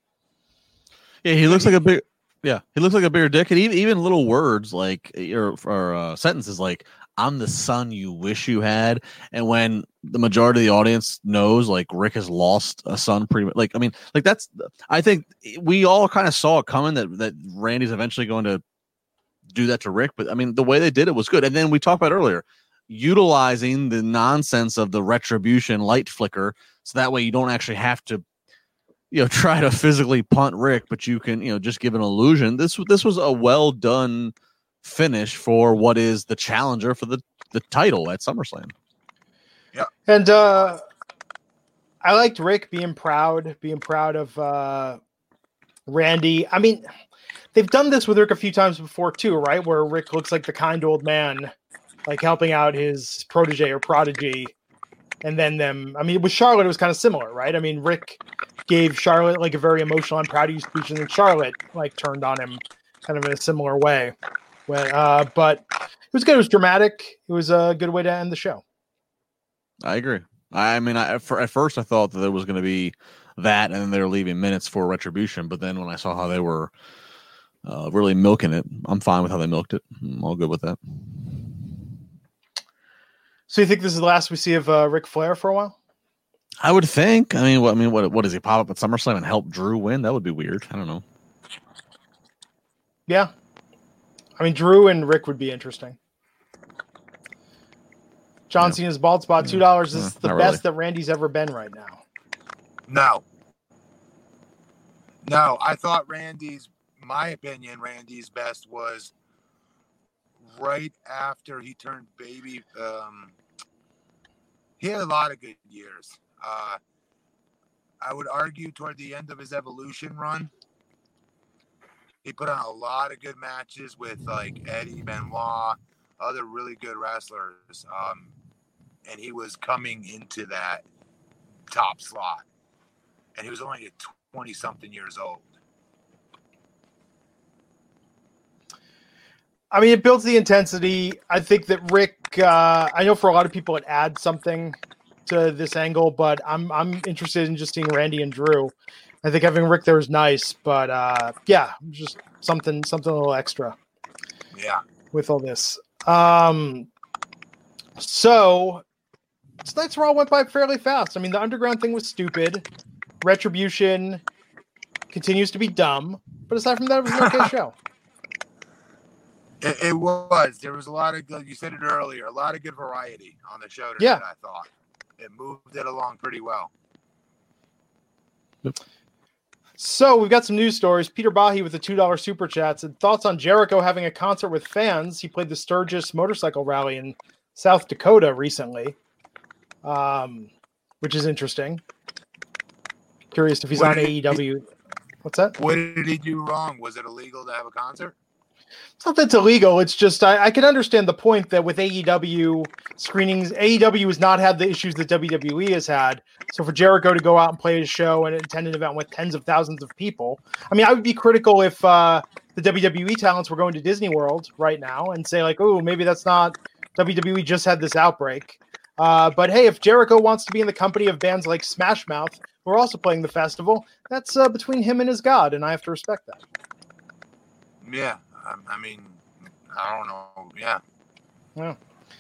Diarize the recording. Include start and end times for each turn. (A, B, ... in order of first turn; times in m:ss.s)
0:01.2-0:18.6 A
0:19.5-0:28.2 A
0:29.1-0:38.7 A
0:40.1-0:40.8 B
0:42.0-0:45.0 B
0:45.9-0:46.8 B
0:47.5-0:51.5 B
0:52.0-0:54.5 B
0:55.2-1:04.1 B
1:04.7-1:08.6 B
1:09.8-1:16.7 A
1:17.6-1:21.4 A
1:23.5-1:25.7 B
1:26.6-1:31.0 A
1:34.4-1:36.0 B
1:38.5-1:42.0 B
1:39.4-1:40.6 A
1:42.9-1:43.2 C
1:45.2-1:49.1 C
1:50.5-1:53.3 C
1:54.8-1:56.8 C
1:58.0-2:00.5 C
2:02.2-2:08.3 C
2:09.0-2:10.8 C
2:11.7-2:12.4 C
2:13.3-2:15.5 C
2:19.7-2:33.8 B
2:34.5-2:34.8 C
2:35.1-2:36.9 B
2:38.0-2:38.8 B
2:39.6-2:42.6 B
2:43.2-2:44.2 B
2:45.1-2:47.7 B
2:49.6-2:56.7 C
2:59.8-3:09.0 B
3:09.8-3:11.8 B
3:13.3-3:14.6 B
3:13.7-3:14.3 C
3:15.2-3:15.6 B
3:15.6-3:18.1 C
3:19.0-3:46.4 B
3:47.8-3:50.8 C